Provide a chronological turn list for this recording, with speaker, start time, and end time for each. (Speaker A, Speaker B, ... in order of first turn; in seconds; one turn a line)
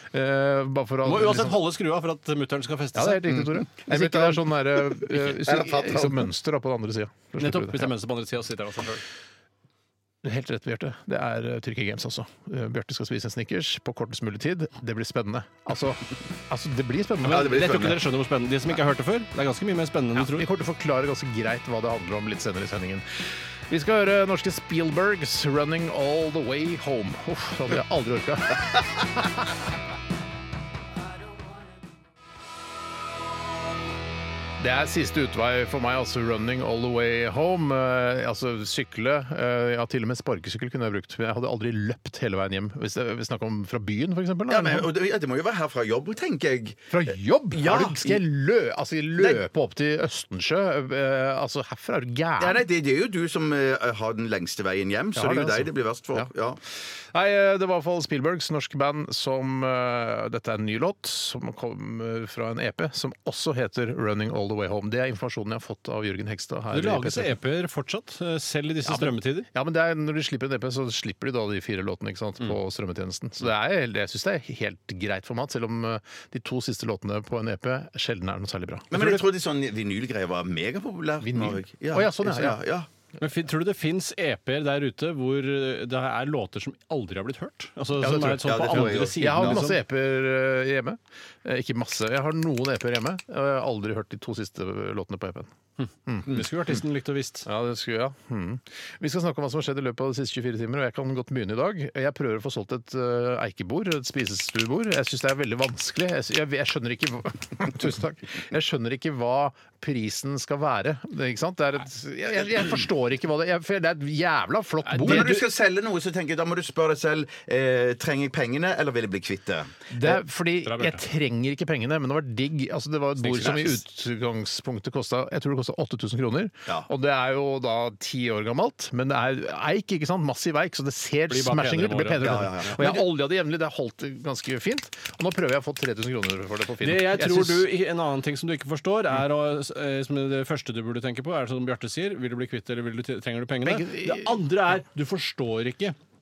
Speaker A: 0.1-1.6
Speaker B: 1.0-3.4
Speaker A: 2.9-7.9
Speaker C: 3.4-6.3
Speaker B: 7.4-9.0
Speaker A: 10.2-17.6
Speaker B: 17.2-20.5
Speaker C: 17.2-18.0
Speaker A: 20.1-23.0
Speaker A: 23.7-29.5
Speaker A: 34.6-44.9
Speaker C: 44.5-47.0
Speaker A: 46.9-52.6
Speaker C: 47.5-48.2
Speaker C: 49.1-49.4
Speaker C: 52.4-56.6
Speaker A: 55.1-67.4
Speaker B: 66.7-69.5
Speaker A: 68.8-79.3
Speaker C: 78.9-82.9
Speaker A: 81.2-82.6
Speaker B: 83.2-89.7
Speaker A: 88.0-95.5
Speaker C: 88.4-89.7
Speaker B: 95.8-97.5
Speaker A: 96.0-96.4
Speaker A: 97.5-115.4
Speaker B: 114.8-115.3
Speaker C: 115.0-119.9
Speaker A: 119.9-137.7
Speaker B: 120.6-121.0
Speaker B: 123.2-123.7
Speaker C: 123.4-123.8
Speaker B: 131.3-132.9
Speaker C: 132.2-133.0
Speaker B: 136.8-145.9
Speaker A: 143.6-144.4